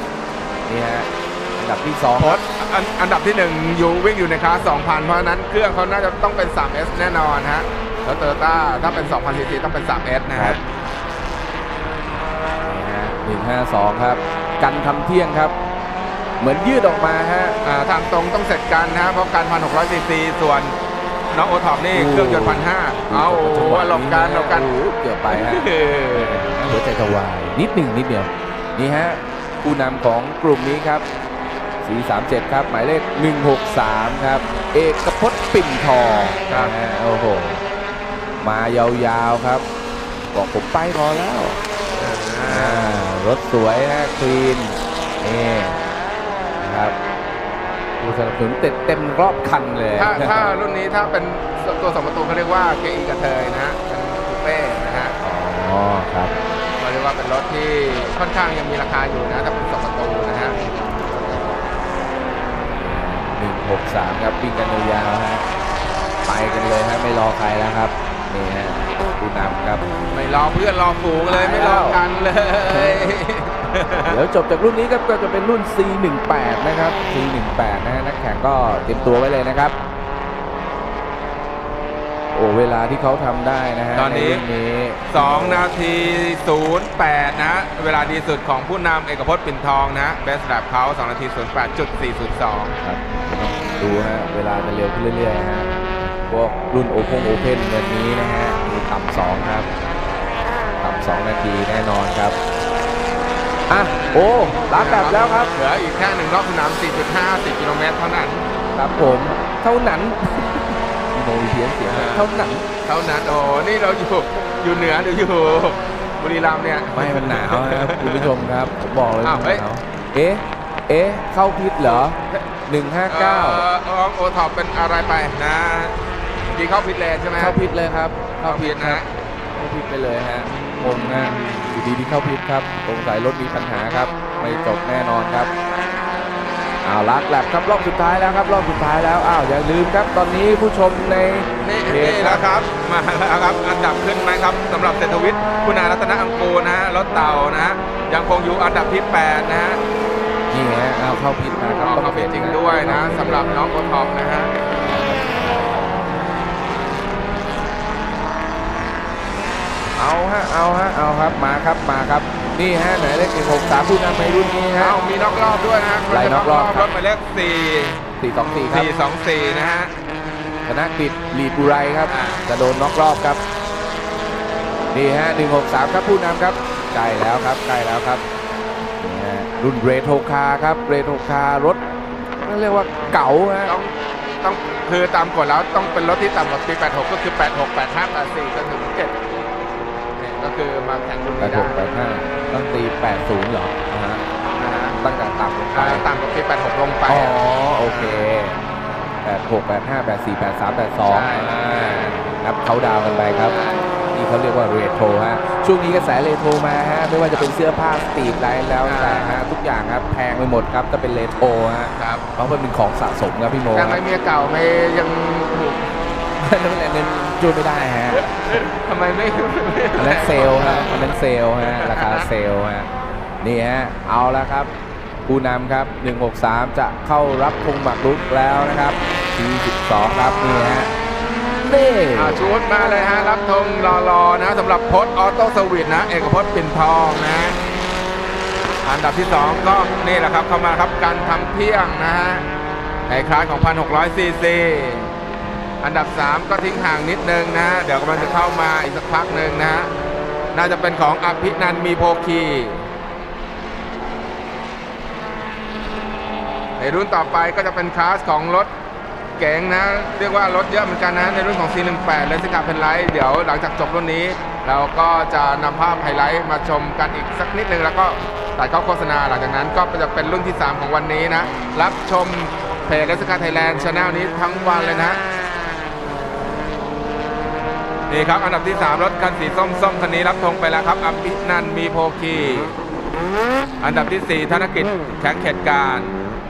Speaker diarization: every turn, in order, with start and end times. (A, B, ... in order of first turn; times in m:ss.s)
0:00.7-0:02.4 A
0:02.2-0:10.6 B
0:10.3-0:10.6 A
0:12.6-0:15.6 A
0:16.4-0:17.6 A
0:17.6-0:20.8 B
0:21.3-0:24.7 B
0:21.9-0:31.0 A
0:25.3-0:26.4 B
0:31.8-0:37.6 A
0:38.4-0:39.6 A
0:40.3-0:41.6 A
0:42.0-0:43.0 B
0:42.5-0:45.8 A
0:46.6-0:47.0 A
0:48.0-0:50.5 A
0:50.0-0:55.2 B
0:55.2-0:56.4 A
0:56.4-1:01.5 B
1:02.7-1:05.4 A
1:06.2-1:09.8 A
1:10.1-1:14.2 B
1:11.3-1:12.0 A
1:12.7-1:13.2 A
1:14.1-1:19.8 A
1:22.3-1:25.7 A
1:24.0-1:24.4 B
1:25.1-1:32.8 B
1:32.8-1:35.7 A
1:36.3-1:39.7 A
1:40.8-1:42.4 A
1:43.7-1:45.5 A
1:44.8-1:48.4 B
1:48.7-1:52.6 A
1:51.9-1:58.3 B
1:56.9-2:03.6 A
1:59.2-1:59.6 B
2:01.8-2:02.4 B
2:03.1-2:06.0 B
2:06.5-2:07.6 B
2:07.4-2:09.0 A
2:08.4-2:09.1 B
2:09.5-2:15.5 A
2:16.8-2:22.5 A
2:21.6-2:29.8 B
2:30.5-2:33.6 A
2:31.8-2:34.5 B
2:34.8-2:36.2 A
2:40.0-2:45.0 A
2:44.8-2:48.0 B
2:46.1-2:46.9 A
2:48.2-2:48.9 A
2:48.7-2:49.9 B
2:50.7-2:53.4 A
2:52.1-2:52.5 B
2:54.9-2:58.2 A
2:59.0-3:01.8 A
3:02.4-3:03.8 A
3:03.7-3:09.2 B
3:10.2-3:11.8 B
3:11.4-3:14.2 A
3:14.6-3:15.0 B
3:15.0-3:16.1 A
3:15.7-3:18.2 B
3:17.1-3:18.6 A
3:19.2-3:23.6 A
3:21.0-3:22.1 B
3:23.4-3:23.9 B
3:24.1-3:34.0 A
3:28.8-3:29.4 B
3:32.0-3:32.2 B
3:33.7-3:36.0 B
3:36.4-3:38.3 A
3:38.1-3:41.0 B
3:40.0-3:42.9 A
3:41.6-3:42.3 B
3:43.4-3:44.7 A
3:45.3-3:50.9 A
3:51.6-3:52.5 A
3:52.1-3:57.6 B
3:58.8-4:02.5 B
4:03.1-4:05.1 B
4:05.8-4:09.9 B
4:10.5-4:12.9 B
4:16.8-4:18.7 B
4:19.4-4:35.2 B
4:38.1-4:42.8 B
4:43.8-4:46.2 B